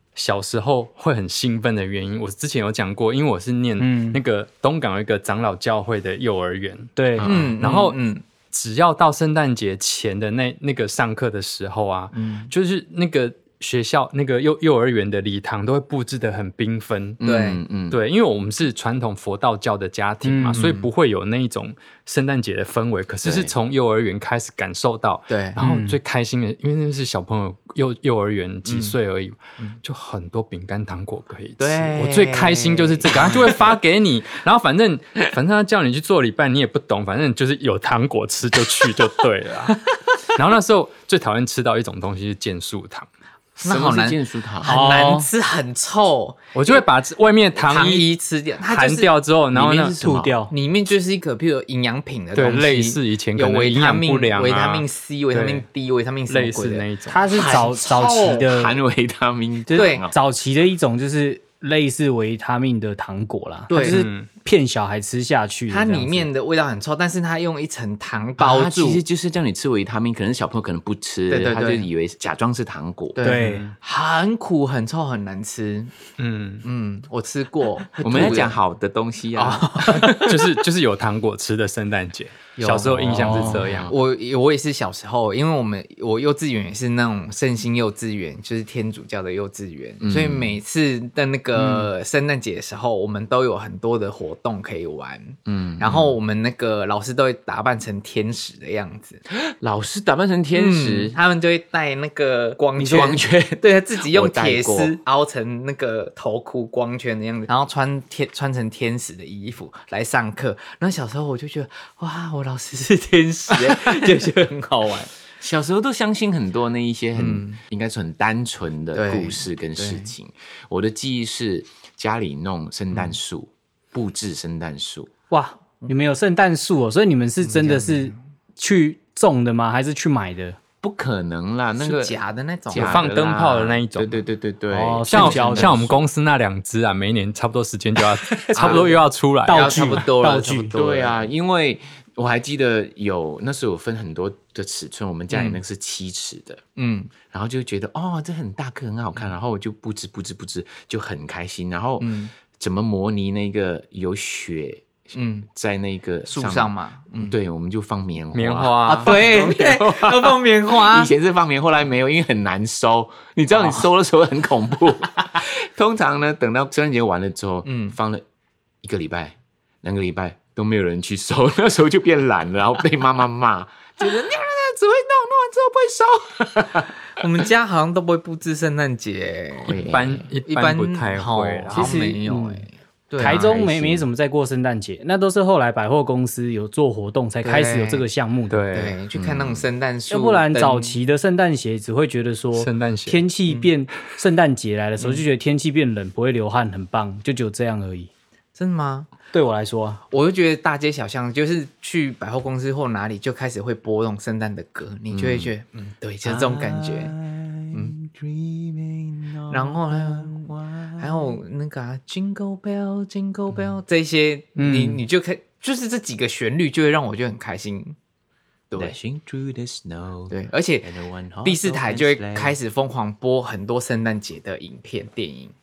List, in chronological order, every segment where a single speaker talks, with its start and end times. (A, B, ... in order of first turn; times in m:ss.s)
0:00.2-0:06.9 A
0:03.8-0:04.2 B
0:07.0-0:07.3 B
0:07.2-0:07.6 C
0:07.2-0:08.2 D
0:07.6-0:08.0 A
0:08.5-0:17.2 A
0:12.1-0:12.5 D
0:17.2-0:18.0 C
0:17.2-0:17.6 D
0:17.9-0:39.8 A
0:20.2-0:20.8 B
0:23.3-0:23.5 C
0:25.3-0:25.6 D
0:25.6-0:26.0 B
0:28.7-0:29.0 D
0:31.6-0:33.8 D
0:40.3-0:43.1 A
0:43.6-0:46.8 D
0:43.6-0:45.0 C
0:44.6-0:45.3 B
0:46.5-0:48.1 A
0:47.6-0:49.1 D
0:48.6-0:50.2 A
0:49.5-0:50.4 C
0:50.0-0:50.5 B
0:50.5-0:58.4 D
0:52.4-0:55.6 A
0:56.3-0:57.2 A
0:57.1-0:58.8 B
0:57.4-1:00.1 C
0:59.7-1:06.3 B
0:59.7-1:00.0 D
1:03.7-1:04.0 D
1:03.8-1:04.3 A
1:05.7-1:09.0 D
1:08.4-1:13.2 C
1:11.3-1:11.9 D
1:13.2-1:15.9 D
1:13.2-1:13.7 B
1:13.4-1:13.8 A
1:16.2-1:16.6 A
1:16.6-1:18.6 D
1:18.0-1:20.1 C
1:19.4-1:20.5 D
1:19.8-1:23.9 A
1:22.6-1:39.2 D
1:23.2-1:24.0 C
1:23.2-1:23.6 B
1:30.0-1:30.6 C
1:35.5-1:36.2 C
1:39.3-1:41.2 C
1:40.6-1:55.1 D
1:42.8-1:45.0 C
1:53.5-1:54.1 C
1:55.4-2:05.1 C
1:57.2-1:57.6 D
1:59.0-2:00.1 D
2:05.3-2:10.6 B
2:07.4-2:08.2 D
2:10.8-2:12.2 C
2:11.8-2:13.1 D
2:12.7-2:16.0 C
2:12.7-2:14.2 A
2:14.7-2:15.8 B
2:15.1-2:20.1 A
2:18.5-2:21.2 D
2:18.6-2:18.9 C
2:19.5-2:20.7 B
2:20.7-2:26.6 C
2:25.3-2:25.6 D
2:26.8-2:27.1 D
2:27.3-2:48.2 C
2:32.0-2:32.3 D
2:35.2-2:35.5 D
2:36.3-2:37.4 D
2:38.3-2:39.2 A
2:38.7-2:41.1 D
2:43.5-2:43.8 D
2:47.6-2:48.0 D
2:48.8-2:56.9 C
2:57.1-2:59.8 D
2:59.6-3:00.3 C
2:59.8-3:02.0 A
3:00.5-3:03.6 D
3:01.7-3:02.7 B
3:03.2-3:08.7 B
3:03.2-3:04.1 C
3:07.4-3:08.1 D
3:08.5-3:09.0 A
3:08.7-3:11.0 D
3:09.1-3:09.6 C
3:10.1-3:18.1 B
3:12.6-3:13.2 A
3:15.0-3:15.2 D
3:18.6-3:19.1 D
3:19.3-3:20.0 B
3:20.1-3:27.2 D
3:25.1-3:25.5 C
3:26.2-3:31.4 C
3:29.5-3:38.0 D
3:34.6-3:35.0 B
3:38.7-3:39.0 D
3:38.7-3:42.6 C
3:40.3-3:40.9 D
3:41.4-3:45.5 D